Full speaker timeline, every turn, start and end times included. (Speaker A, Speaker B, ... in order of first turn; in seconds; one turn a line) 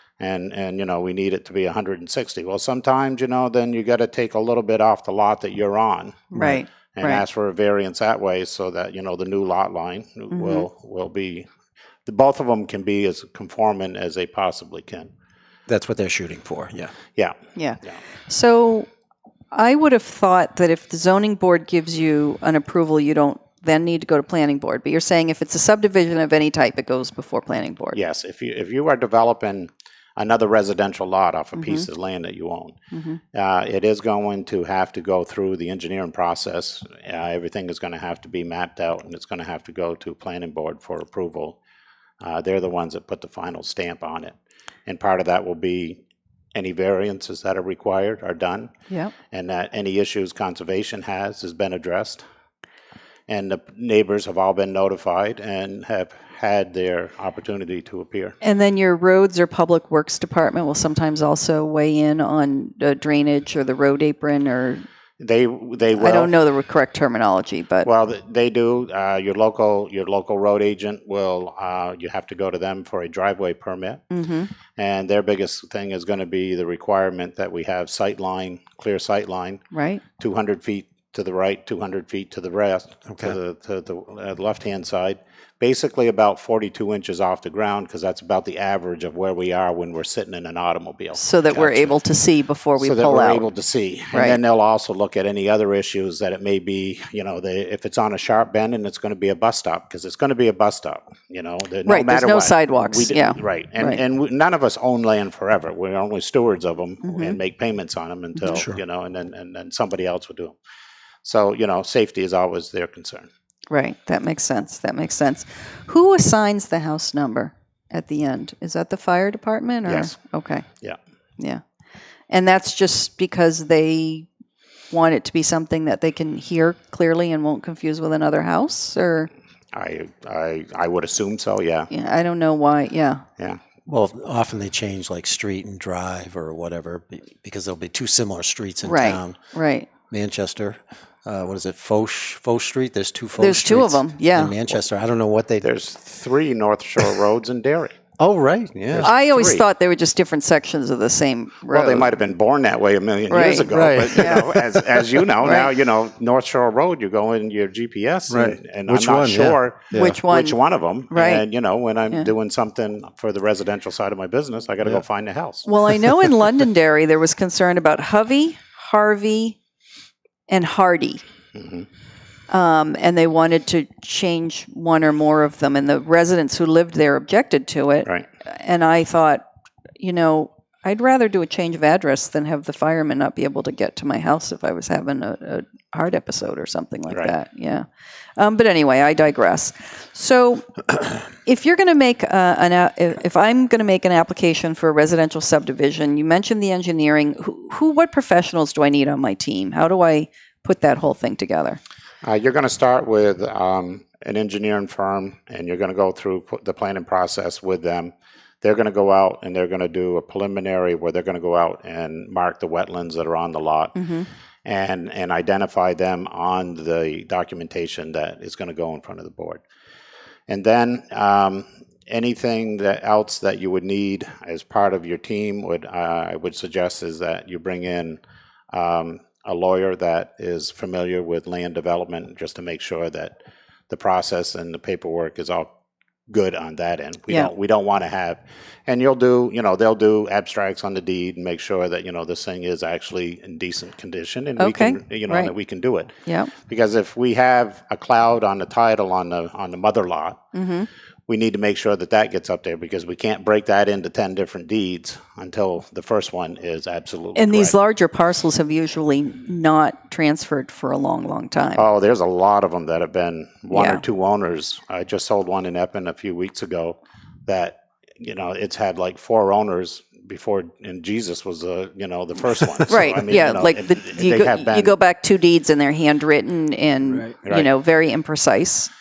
Speaker A: 0.2-11.5
Speaker B: 6.3-7.2
Speaker B: 10.3-10.7
Speaker A: 12.1-15.1
Speaker C: 15.7-16.9
Speaker A: 17.2-18.0
Speaker B: 17.6-18.9
Speaker B: 19.5-28.0
Speaker A: 27.9-32.8
Speaker B: 31.6-31.9
Speaker B: 32.9-33.2
Speaker A: 33.3-41.6
Speaker A: 42.2-44.4
Speaker A: 44.9-46.0
Speaker A: 46.5-48.7
Speaker B: 48.9-49.1
Speaker A: 49.3-52.2
Speaker A: 53.3-58.4
Speaker B: 58.4-64.8
Speaker A: 65.2-66.3
Speaker B: 65.9-67.9
Speaker A: 67.8-74.0
Speaker B: 74.1-74.5
Speaker A: 74.8-79.6
Speaker B: 79.7-80.0
Speaker A: 80.2-92.0
Speaker C: 83.1-83.4
Speaker B: 91.2-93.5
Speaker A: 92.8-110.6
Speaker B: 94.1-94.4
Speaker B: 101.8-104.0
Speaker B: 107.0-107.4
Speaker C: 108.5-108.8
Speaker A: 111.2-113.3
Speaker B: 113.7-120.7
Speaker A: 119.8-120.2
Speaker B: 122.3-124.3
Speaker B: 124.9-129.3
Speaker A: 129.7-131.9
Speaker B: 131.9-133.2
Speaker C: 133.9-139.4
Speaker B: 138.8-139.9
Speaker C: 140.1-145.7
Speaker B: 143.4-144.6
Speaker A: 145.6-148.0
Speaker C: 148.2-149.1
Speaker A: 148.9-149.7
Speaker B: 149.0-152.1
Speaker A: 151.7-165.7
Speaker B: 153.3-154.5
Speaker C: 153.7-154.7
Speaker B: 155.4-155.7
Speaker C: 158.3-160.2
Speaker B: 159.9-160.6
Speaker B: 161.1-161.5
Speaker B: 165.6-169.6
Speaker B: 170.5-171.2
Speaker A: 171.5-171.9
Speaker B: 172.5-179.4
Speaker B: 180.0-187.9
Speaker A: 187.1-187.3
Speaker B: 188.4-201.8
Speaker A: 202.2-214.0
Speaker B: 214.0-214.3
Speaker A: 214.7-219.6
Speaker A: 220.5-228.2
Speaker A: 228.7-233.3
Speaker A: 233.9-235.7
Speaker A: 236.3-246.1
Speaker B: 244.6-245.5
Speaker B: 246.2-246.5
Speaker A: 246.6-250.4
Speaker B: 250.5-250.9
Speaker A: 251.3-257.8
Speaker B: 257.4-261.8
Speaker A: 261.8-274.9
Speaker B: 263.7-264.0
Speaker B: 272.9-278.9